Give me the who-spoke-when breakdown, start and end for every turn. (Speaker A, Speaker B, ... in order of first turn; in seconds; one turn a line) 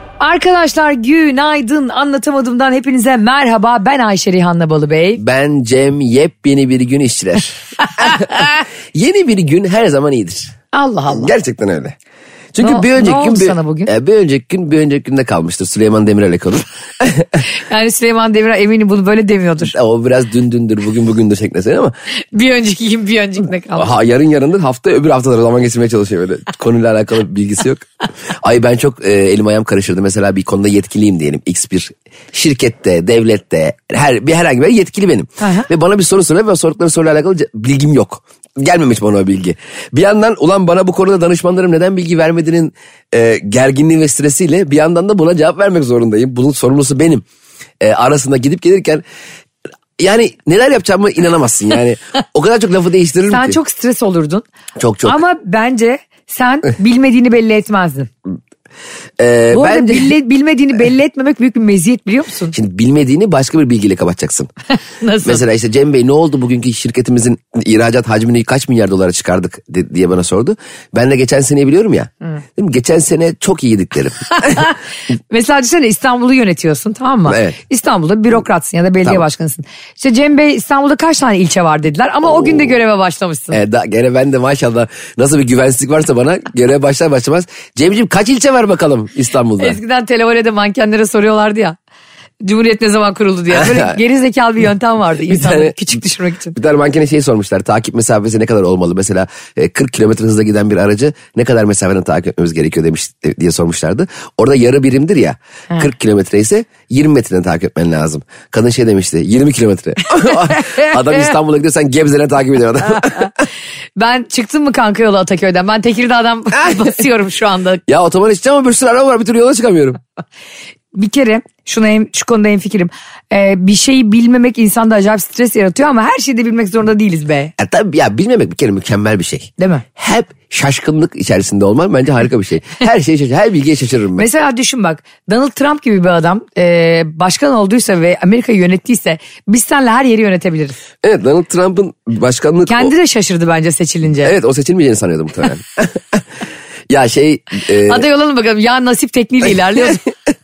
Speaker A: 0.2-5.2
Speaker B: 5.2-10.5
Speaker A: 10.7-11.3
Speaker B: 11.1-12.0
Speaker B: 12.5-17.4
Speaker A: 12.6-13.9
Speaker A: 17.4-19.8
Speaker B: 19.6-21.9
Speaker A: 22.3-23.9
Speaker B: 23.8-47.2
Speaker A: 35.4-35.7
Speaker B: 47.8-49.0
Speaker B: 50.0-53.6
Speaker A: 53.3-54.5
Speaker B: 54.8-55.2
Speaker A: 55.0-58.1
Speaker B: 59.2-60.1
Speaker A: 59.5-62.5
Speaker B: 62.5-64.5
Speaker A: 64.8-65.4
Speaker B: 65.2-74.7
Speaker A: 74.5-74.7
Speaker A: 75.3-83.6
Speaker B: 77.3-77.6
Speaker B: 82.2-82.8
Speaker B: 83.5-89.8
Speaker A: 89.6-91.8
Speaker A: 92.4-96.6
Speaker B: 93.5-94.0
Speaker B: 95.2-95.9
Speaker B: 96.5-113.3
Speaker A: 114.0-117.8
Speaker B: 117.9-120.0
Speaker A: 120.9-127.5
Speaker B: 127.6-134.3
Speaker A: 129.6-129.8
Speaker A: 134.2-140.8
Speaker B: 141.0-142.9
Speaker A: 142.7-144.3
Speaker B: 144.2-146.2
Speaker B: 146.9-148.1
Speaker A: 147.7-150.1